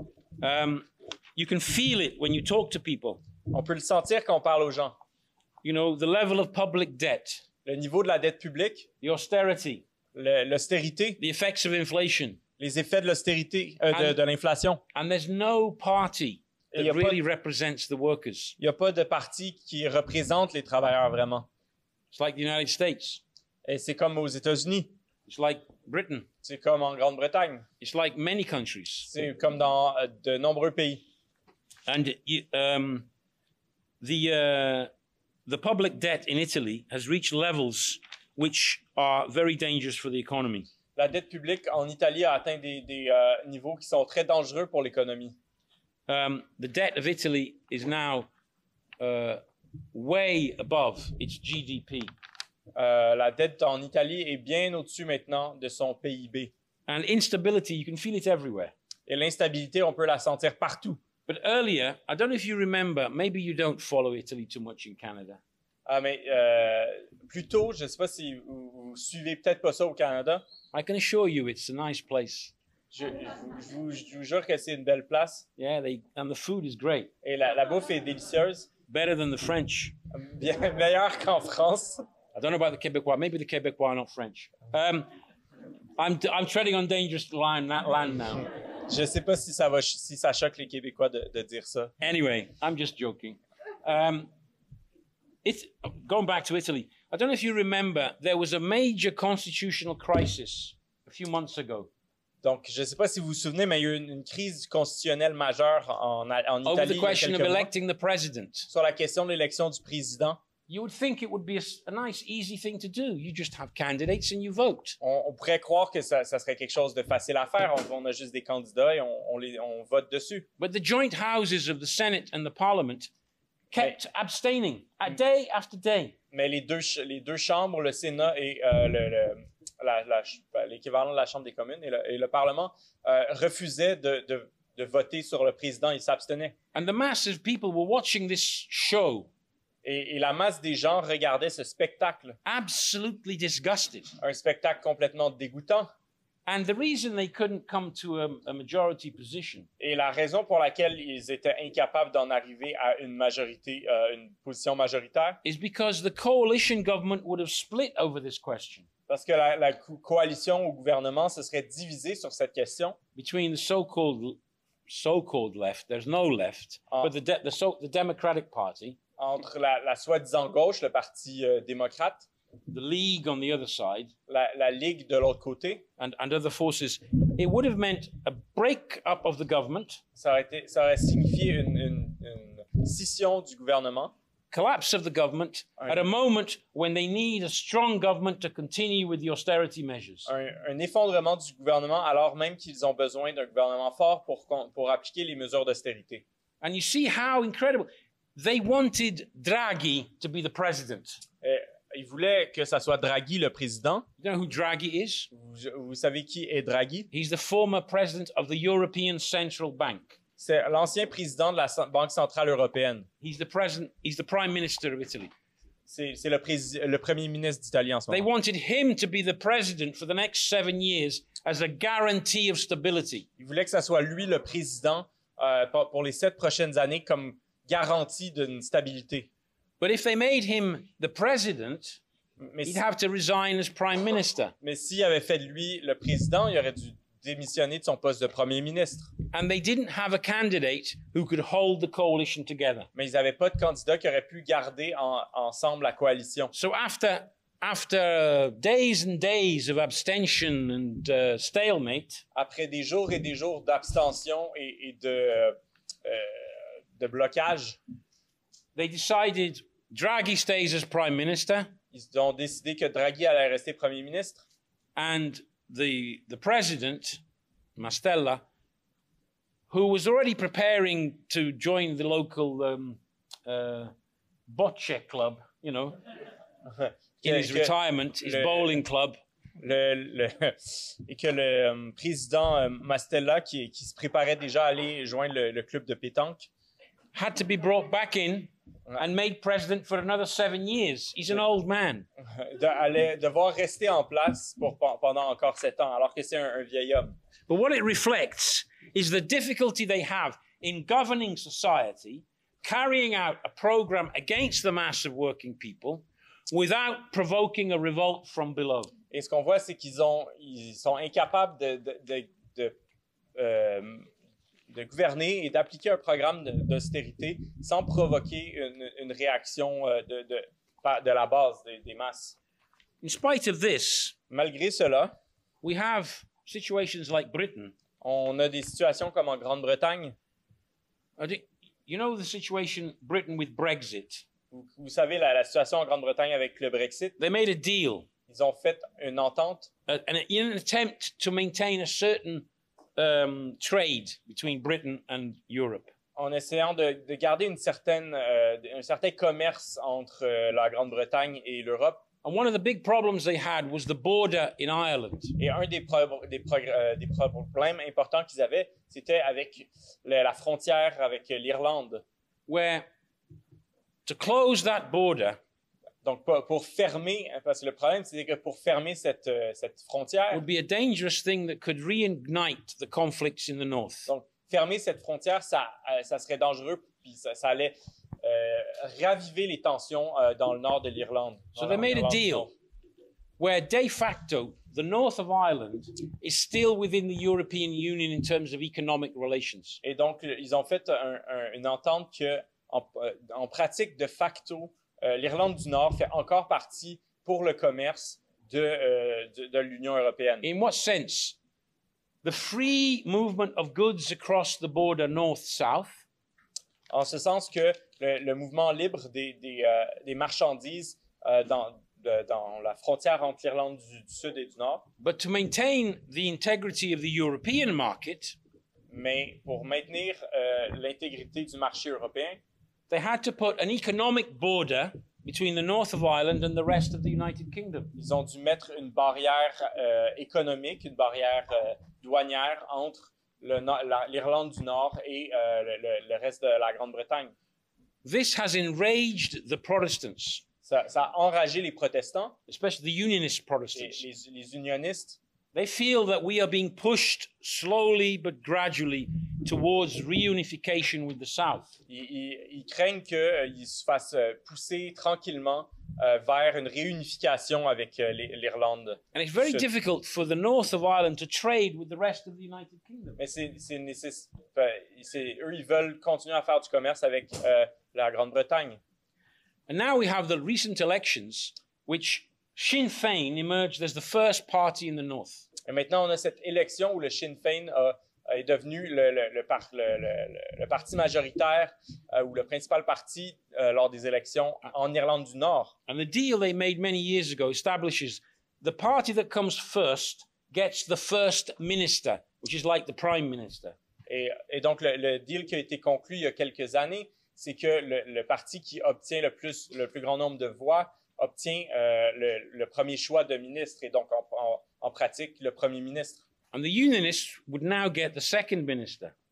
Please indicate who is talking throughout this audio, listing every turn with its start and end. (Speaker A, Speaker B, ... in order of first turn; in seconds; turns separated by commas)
Speaker A: 0.4-3.2, Speaker B: 3.5-5.0, Speaker A: 5.6-7.4, Speaker B: 7.7-8.9, Speaker A: 9.0-9.8, Speaker B: 10.2-11.2, Speaker A: 11.2-12.4, Speaker B: 12.6-14.8, Speaker A: 13.9-14.2, Speaker A: 14.9-18.6, Speaker B: 16.7-17.2, Speaker B: 18.6-21.5, Speaker A: 22.1-23.2, Speaker B: 23.6-24.9, Speaker A: 25.3-26.3, Speaker B: 26.4-27.7, Speaker A: 27.8-29.1, Speaker B: 29.1-31.0, Speaker A: 31.9-33.1, Speaker A: 34.0-34.9, Speaker A: 35.5-40.7, Speaker B: 41.0-45.4, Speaker A: 46.1-48.3, Speaker A: 49.0-49.4, Speaker A: 49.9-52.1, Speaker B: 52.8-56.5, Speaker A: 56.9-58.7, Speaker B: 59.1-61.0, Speaker A: 61.3-65.4, Speaker B: 65.9-70.4, Speaker A: 70.7-72.5, Speaker B: 72.9-75.5, Speaker A: 75.6-77.1, Speaker B: 77.2-78.7, Speaker A: 78.9-80.0, Speaker B: 80.1-82.0, Speaker A: 82.3-85.1, Speaker A: 86.0-88.5, Speaker B: 88.9-92.0, Speaker A: 92.0-94.3, Speaker A: 95.4-101.9, Speaker B: 102.4-107.7, Speaker A: 106.7-108.7, Speaker B: 108.7-110.4, Speaker A: 110.7-115.0, Speaker B: 115.0-120.5, Speaker A: 120.6-123.1, Speaker A: 123.7-126.2, Speaker B: 126.3-136.6, Speaker A: 136.7-139.3, Speaker B: 139.8-142.4, Speaker A: 142.4-144.1, Speaker B: 144.2-145.9, Speaker A: 146.5-149.7, Speaker B: 149.8-155.4, Speaker A: 155.4-158.9, Speaker B: 159.1-163.0, Speaker A: 163.2-169.0, Speaker B: 169.2-172.3, Speaker A: 172.7-174.1, Speaker B: 174.3-175.8, Speaker A: 176.0-180.0, Speaker B: 180.2-184.1, Speaker A: 184.5-190.3, Speaker B: 185.8-186.1, Speaker B: 190.3-196.2, Speaker A: 196.6-201.2, Speaker B: 201.4-204.1, Speaker A: 204.2-205.3, Speaker B: 205.3-207.1, Speaker A: 207.1-210.2, Speaker B: 210.4-213.1, Speaker A: 213.2-215.3, Speaker B: 215.9-218.3, Speaker A: 218.1-223.3, Speaker B: 223.4-229.3, Speaker A: 229.8-232.0, Speaker B: 232.4-232.8, Speaker A: 232.7-234.5, Speaker B: 234.6-239.1, Speaker A: 239.3-242.9, Speaker B: 242.9-246.5, Speaker A: 246.5-252.2, Speaker B: 252.3-257.8, Speaker A: 258.8-261.7, Speaker B: 261.9-264.4, Speaker A: 265.0-267.2, Speaker A: 267.8-268.4, Speaker A: 269.7-273.9, Speaker A: 274.5-276.0, Speaker B: 276.7-278.8, Speaker A: 277.2-279.2, Speaker B: 279.6-286.5, Speaker A: 287.1-292.1, Speaker B: 292.3-297.2, Speaker A: 297.5-308.9, Speaker B: 309.1-312.8, Speaker B: 313.4-314.1, Speaker B: 314.7-322.4, Speaker A: 323.0-324.1, Speaker B: 324.3-325.2, Speaker A: 325.6-327.7, Speaker B: 328.0-330.1, Speaker A: 331.2-334.3, Speaker B: 334.5-337.2, Speaker A: 337.2-338.1, Speaker B: 338.3-339.7, Speaker A: 339.9-345.9, Speaker B: 346.2-352.0, Speaker A: 352.2-355.4, Speaker B: 355.4-362.0, Speaker A: 362.5-362.9, Speaker A: 364.1-365.4, Speaker B: 366.0-370.4, Speaker A: 370.3-374.1, Speaker B: 374.1-382.5, Speaker A: 381.6-382.5, Speaker A: 383.4-389.8, Speaker B: 389.8-400.5, Speaker A: 400.4-401.4, Speaker A: 402.2-406.0, Speaker B: 406.9-414.9, Speaker A: 415.0-418.4, Speaker B: 418.9-422.4, Speaker A: 422.9-427.9, Speaker B: 428.0-437.3, Speaker A: 438.0-440.4, Speaker B: 440.6-442.4, Speaker A: 442.5-444.0, Speaker B: 443.8-445.2, Speaker A: 445.5-451.8, Speaker B: 451.9-459.6, Speaker A: 459.1-463.2, Speaker B: 463.2-468.8, Speaker A: 469.7-475.5, Speaker B: 475.7-485.8, Speaker A: 485.9-493.8, Speaker B: 494.1-506.2, Speaker A: 506.5-509.1